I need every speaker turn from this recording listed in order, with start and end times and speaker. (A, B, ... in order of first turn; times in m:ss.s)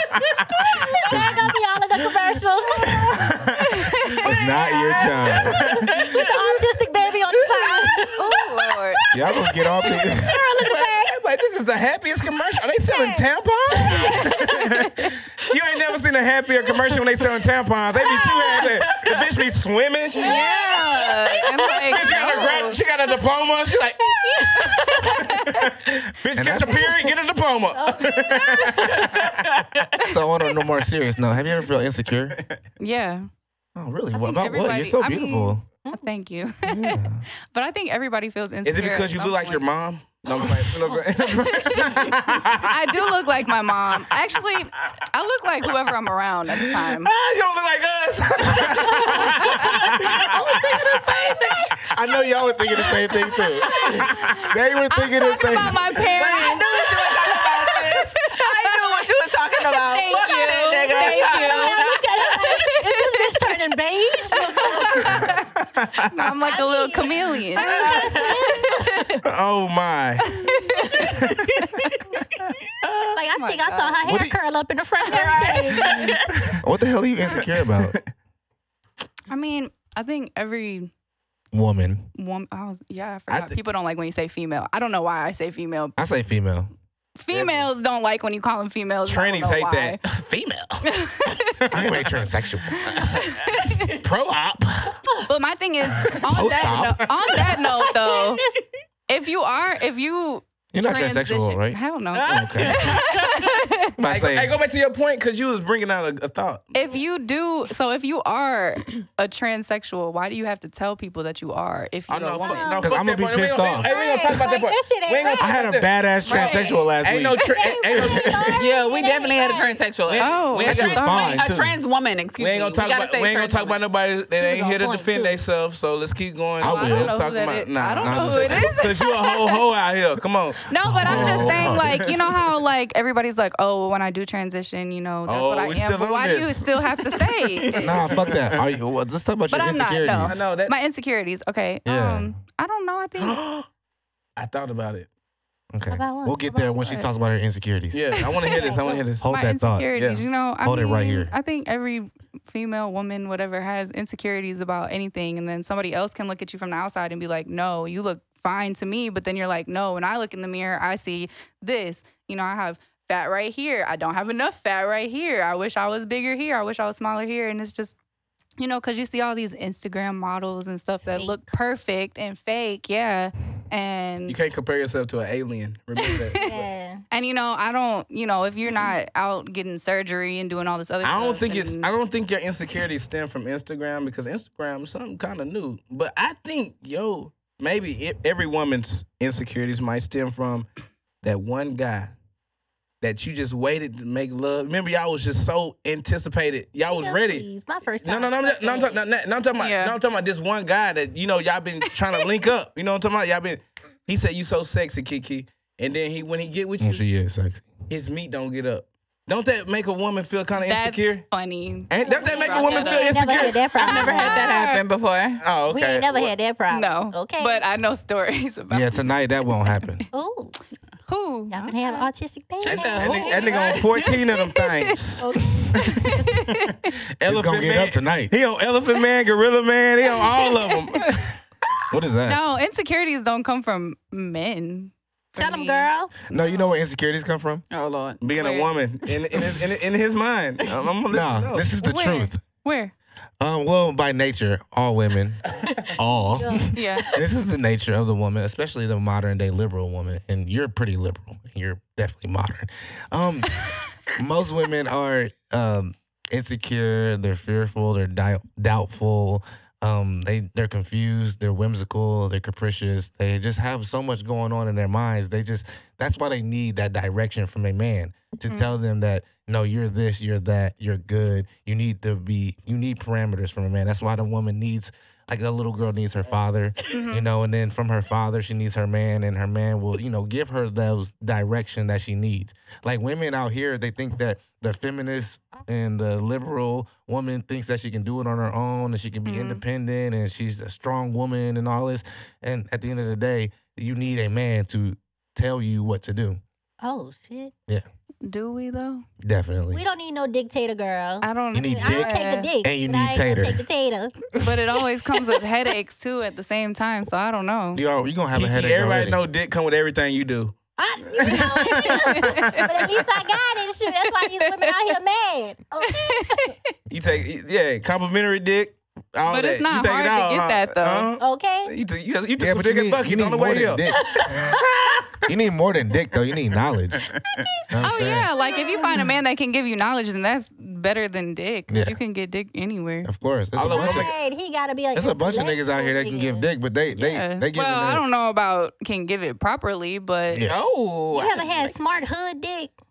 0:00.6-0:03.5 A
0:01.1-0:01.5 B
0:03.6-0:04.6 C
0:04.2-0:05.7 B
0:04.3-0:08.2 A
0:04.9-0:05.3 D
0:05.7-0:06.0 E
0:05.9-0:06.3 D
0:07.4-0:08.1 E
0:08.2-0:09.0 C
0:09.1-0:10.3 B
0:09.4-0:11.1 A
0:10.6-0:10.9 D
0:10.8-0:20.5 E
0:12.8-0:13.3 A
0:13.8-0:14.6 A
0:14.0-0:15.1 C
0:18.3-0:18.6 A
0:18.8-0:19.1 D
0:20.1-0:21.3 A
0:20.2-0:22.8 C
0:21.3-0:22.0 D
0:21.6-0:29.6 E
0:24.4-0:25.7 C
0:26.3-0:27.0 B
0:27.7-0:29.2 A
0:28.8-0:29.8 D
0:30.0-0:32.4 B
0:32.8-0:33.3 C
0:33.7-0:35.6 B
0:34.1-0:39.6 C
0:36.6-0:37.2 B
0:38.6-0:42.7 E
0:40.3-0:47.1 C
0:46.6-0:51.3 E
0:49.0-0:49.9 C
0:49.5-0:55.9 B
0:53.7-0:59.1 C
0:53.7-0:54.3 E
0:56.1-0:57.9 E
0:56.1-1:02.3 D
0:59.7-1:03.7 C
1:00.9-1:05.3 A
1:04.2-1:05.5 C
1:05.8-1:06.1 E
1:06.1-1:09.2 C
1:06.4-1:09.2 A
1:07.6-1:08.4 D
1:09.2-1:10.4 E
1:10.2-1:12.0 C
1:10.8-1:11.2 D
1:11.0-1:11.5 E
1:12.8-1:13.1 D
1:13.1-1:16.1 A
1:13.3-1:14.0 C
1:14.0-1:14.3 B
1:15.0-1:16.6 D
1:15.8-1:16.1 E
1:16.6-1:18.0 B
1:17.3-1:18.0 E
1:19.3-1:20.9 C
1:21.5-1:22.1 B
1:22.1-1:26.0 C
1:23.3-1:23.6 E
1:26.0-1:26.7 B
1:27.2-1:30.0 C
1:27.3-1:27.6 E
1:29.0-1:32.2 E
1:30.8-1:31.6 C
1:31.7-1:32.8 B
1:32.7-1:34.0 C
1:32.8-1:35.1 E
1:35.3-1:38.4 C
1:36.3-1:37.2 B
1:37.8-1:38.3 D
1:39.1-1:44.0 C
1:40.7-1:43.0 B
1:42.1-1:43.6 D
1:44.0-1:44.5 B
1:44.0-1:46.7 E
1:46.7-1:52.8 C
1:52.1-1:58.3 E
1:52.4-1:52.9 A
1:52.8-1:53.9 B
1:53.8-1:55.6 A
1:55.4-1:58.6 B
1:56.2-1:56.8 C
1:56.3-1:56.8 A
1:57.4-1:59.8 A
1:58.6-2:03.8 D
2:00.0-2:01.0 E
2:00.2-2:01.5 C
2:00.6-2:01.8 B
2:02.4-2:12.5 E
2:04.3-2:05.4 A
2:06.6-2:07.2 B
2:06.6-2:09.6 C
2:08.0-2:08.8 B
2:10.7-2:18.1 C
2:10.8-2:12.1 B
2:15.2-2:18.6 E
2:17.8-2:20.4 B
2:19.5-2:23.4 C
2:20.2-2:20.7 E
2:21.8-2:22.3 B
2:23.2-2:23.7 E
2:24.4-2:25.1 E
2:25.7-2:28.2 B
2:25.9-2:27.0 A
2:27.9-2:29.2 E
2:28.2-2:48.0 C
2:28.5-2:28.9 A
2:29.2-2:29.9 B
2:29.9-2:30.2 E
2:30.6-2:31.3 B
2:48.6-2:54.4 C
2:51.1-2:51.5 A
2:54.3-2:56.6 E
2:56.0-2:56.6 C
2:56.4-2:57.0 A
2:57.1-3:01.9 C
3:01.0-3:10.7 E
3:11.2-3:12.1 E
3:13.0-3:17.4 E
3:16.9-3:19.0 A
3:18.0-3:27.0 E
3:19.6-3:20.0 C
3:21.9-3:22.2 C
3:26.8-3:27.7 B
3:27.9-3:31.2 E
3:30.6-3:34.8 C
3:31.9-3:33.7 E
3:32.0-3:34.5 A
3:33.8-3:35.4 D
3:35.4-3:36.3 E
3:35.7-3:37.6 A
3:36.7-3:39.1 C
3:38.7-3:40.0 B
3:39.6-3:39.9 C
3:40.1-3:40.5 A
3:41.1-3:42.1 C
3:41.5-3:43.3 A
3:42.6-3:44.1 D
3:42.7-3:45.3 E
3:43.3-3:44.9 C
3:45.2-3:46.2 A
3:45.7-3:46.9 C
3:46.5-3:51.3 E
3:47.2-3:48.3 B
3:50.2-3:51.2 C
3:51.9-3:52.4 B
3:52.2-3:56.6 C
3:55.4-3:56.1 A
3:56.3-3:57.6 B
3:57.7-3:58.3 D
3:58.2-4:01.7 E
3:58.4-3:58.7 C
4:01.1-4:02.4 B
4:01.8-4:02.9 C
4:03.4-4:13.6 B
4:06.3-4:06.7 A
4:06.7-4:07.1 C
4:14.1-4:56.4 B
4:28.5-4:28.7 C
4:36.9-4:37.3 C
4:49.2-4:49.6 C
4:56.8-4:57.5 A
4:58.2-4:59.0 C
4:59.2-4:59.8 B
4:59.7-5:04.2 A
5:01.2-5:02.5 C
5:01.5-5:03.6 B
5:04.4-5:07.8 C
5:07.7-5:09.2 B
5:08.3-5:10.5 E
5:10.8-5:16.5 A
5:11.2-5:12.0 E
5:11.7-5:13.0 C
5:13.9-5:14.8 C
5:15.8-5:16.7 C
5:16.9-5:24.5 E
5:19.3-5:21.1 C
5:21.2-5:21.7 A
5:22.4-5:24.3 B
5:24.2-5:24.6 D
5:25.2-5:27.1 B
5:27.0-5:27.4 E
5:27.2-5:29.1 A
5:27.7-5:28.3 B
5:27.8-5:33.1 C
5:31.7-5:32.0 B
5:33.0-5:34.1 B
5:33.5-5:34.1 E
5:33.6-5:36.5 A
5:34.9-5:38.0 B
5:37.0-5:40.5 C
5:40.3-5:40.6 B
5:40.4-5:41.5 D
5:41.1-5:42.7 A